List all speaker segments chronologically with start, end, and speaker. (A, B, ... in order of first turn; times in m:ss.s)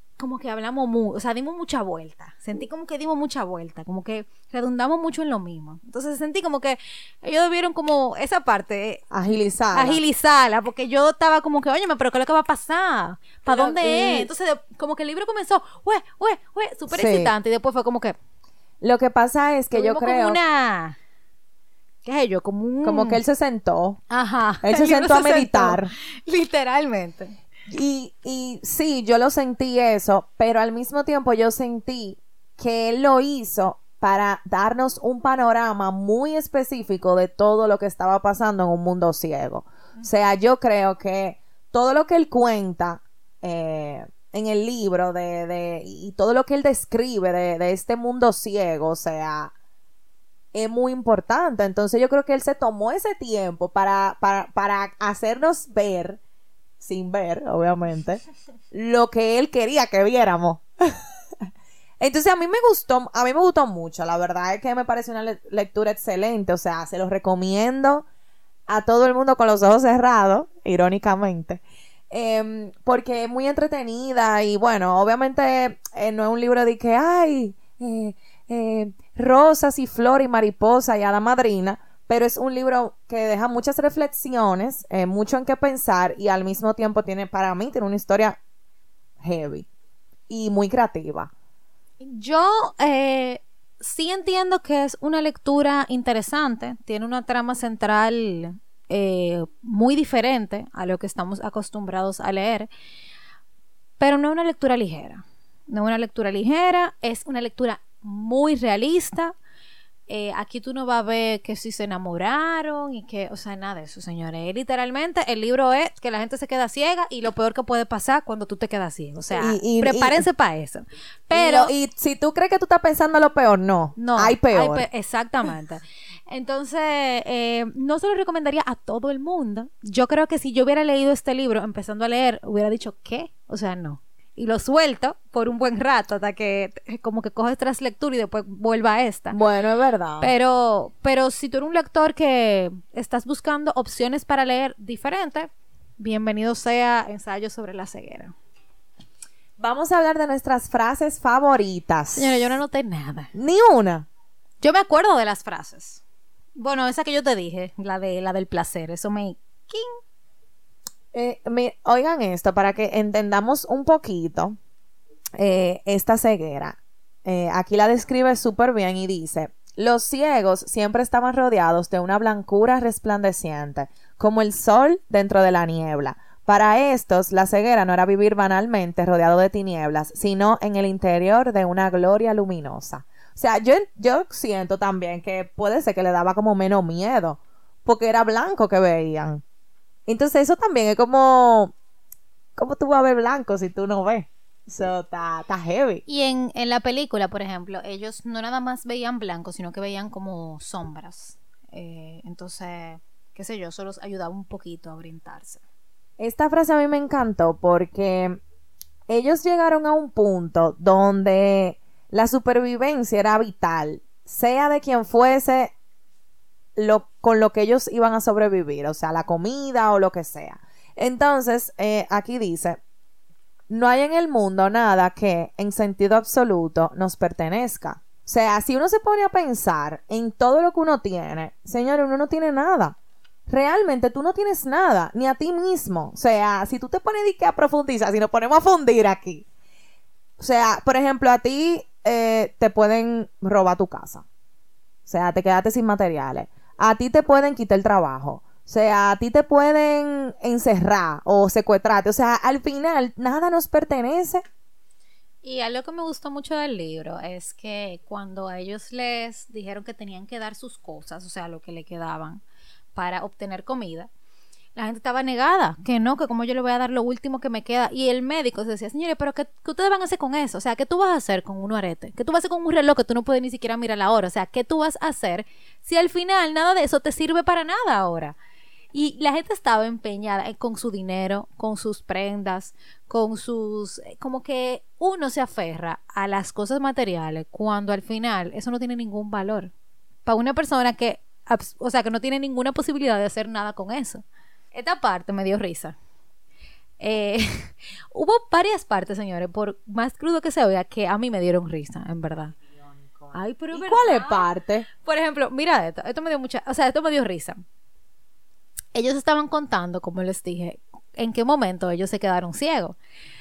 0:00.2-0:09.0 A
0:09.1-0:10.0 B
0:09.7-0:18.2 A
0:13.5-0:14.3 B
0:16.9-0:17.3 B
0:18.8-0:20.4 B
0:19.7-0:21.0 A
0:22.0-0:23.2 A
0:22.8-0:24.0 B
0:24.1-0:27.4 A
0:24.6-0:25.9 B
0:27.7-0:49.5 B
0:50.5-0:56.2 B
0:56.8-1:00.9 B
1:02.0-1:08.0 B
1:08.7-1:28.4 B
1:29.2-1:29.7 B
1:30.3-1:31.3 B
1:32.0-1:42.7 A
1:44.0-1:49.3 A
1:50.1-2:01.7 A
1:59.3-2:00.2 B
2:01.3-2:04.9 B
2:04.0-2:19.4 A
2:19.3-2:20.3 B
2:20.2-2:28.3 A
2:29.6-2:32.4 B
2:32.1-2:33.3 A
2:33.3-2:34.1 B
2:34.6-2:36.0 A
2:36.6-2:39.9 A
2:41.1-2:44.6 B
2:45.4-3:09.4 B
3:10.1-3:11.7 B
3:12.6-3:16.0 B
3:16.1-3:25.6 A
3:26.2-3:28.4 B
3:29.1-3:35.7 B
3:36.8-3:42.8 B
3:43.7-3:53.0 B
3:53.5-3:59.4 B
4:00.4-4:04.2 B
4:05.0-4:14.4 B
4:15.4-4:22.4 A
4:22.9-4:24.1 A
4:24.7-4:38.4 A
4:38.9-4:49.7 A
4:50.2-4:56.0 A
4:57.0-5:02.5 A
5:03.2-5:04.9 B
5:03.3-5:07.6 A
5:08.9-5:13.0 A